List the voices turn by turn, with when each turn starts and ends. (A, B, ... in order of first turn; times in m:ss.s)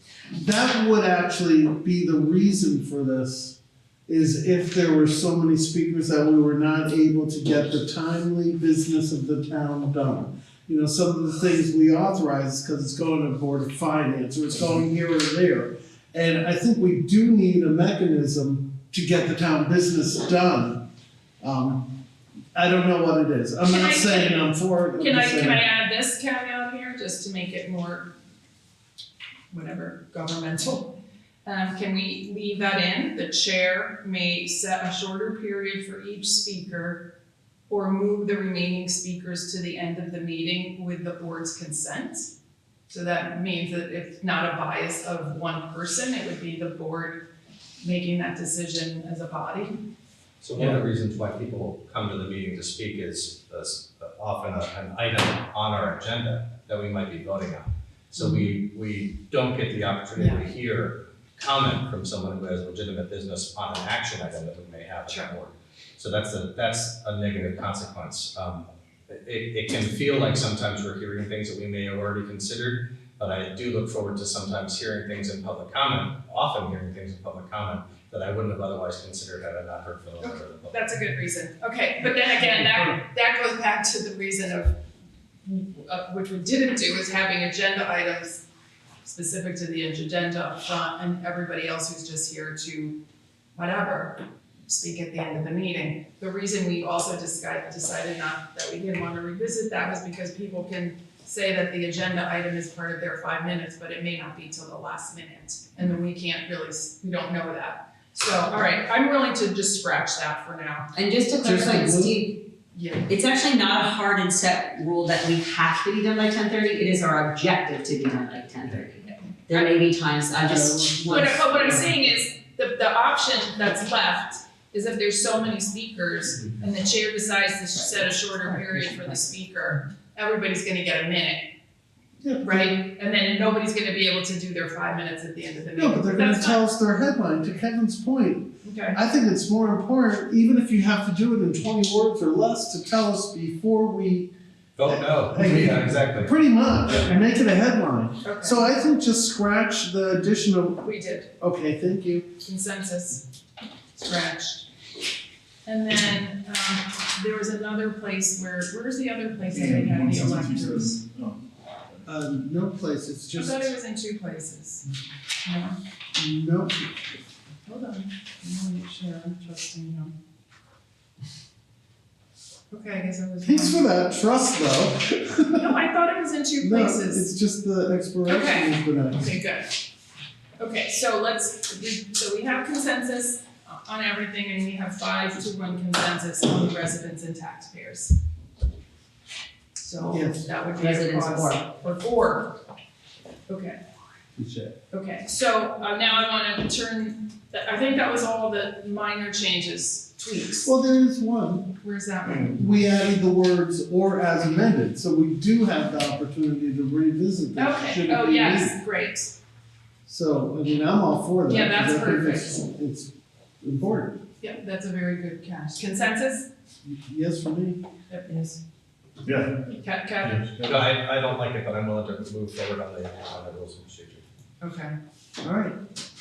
0:00.3-0:03.6 A
0:04.1-0:20.8 A
0:21.4-0:21.9 A
0:22.5-0:25.6 A
0:23.7-0:28.1 B
0:29.5-0:30.9 B
0:31.4-0:37.0 B
0:37.7-0:42.3 B
0:42.9-0:47.2 B
0:47.8-0:49.8 B
0:50.4-1:20.9 C
1:00.2-1:00.4 B
1:05.0-1:05.3 B
1:20.2-1:24.8 B
1:25.4-1:28.4 B
1:29.0-1:33.0 B
1:33.5-1:50.9 B
1:50.9-1:52.4 D
1:51.4-1:52.2 A
1:52.7-1:53.0 B
1:53.1-2:01.8 D
2:00.4-2:01.9 A
2:01.1-2:11.4 B
2:08.5-2:09.1 D
2:12.2-2:12.7 A
2:12.4-2:16.6 B
2:15.8-2:24.3 A
2:18.6-2:19.0 B
2:24.8-2:26.3 C
2:24.8-2:30.8 A
2:28.2-2:28.7 B
2:30.8-2:31.3 B
2:31.4-2:32.3 A
2:32.4-2:33.2 B
2:33.9-2:34.7 B
2:35.6-2:41.0 B
2:39.5-2:41.4 E
2:42.0-2:43.7 A
2:43.3-2:44.8 B
2:45.4-2:45.8 B
2:46.2-2:46.9 A
2:47.6-2:50.1 B
2:52.7-2:53.9 B
2:53.4-2:55.7 A
2:55.5-2:57.3 B
2:56.6-2:59.3 A
2:58.2-2:59.7 B
3:00.6-3:08.2 B
3:09.8-3:12.6 B
3:10.1-3:10.5 A
3:10.8-3:11.6 D
3:13.5-3:13.8 B
3:14.4-3:14.7 A
3:14.9-3:20.7 B
3:20.6-3:21.7 A
3:21.8-3:22.6 B
3:22.5-3:28.8 A
3:27.6-3:29.4 B
3:30.0-3:34.2 A
3:31.4-3:32.6 B
3:34.4-3:36.5 B
3:36.8-3:37.8 A
3:38.1-3:38.6 B
3:39.2-3:39.5 E
3:39.8-3:40.4 B
3:40.2-3:40.8 E
3:40.6-3:44.2 C
3:44.6-3:45.0 B
3:45.4-3:45.8 A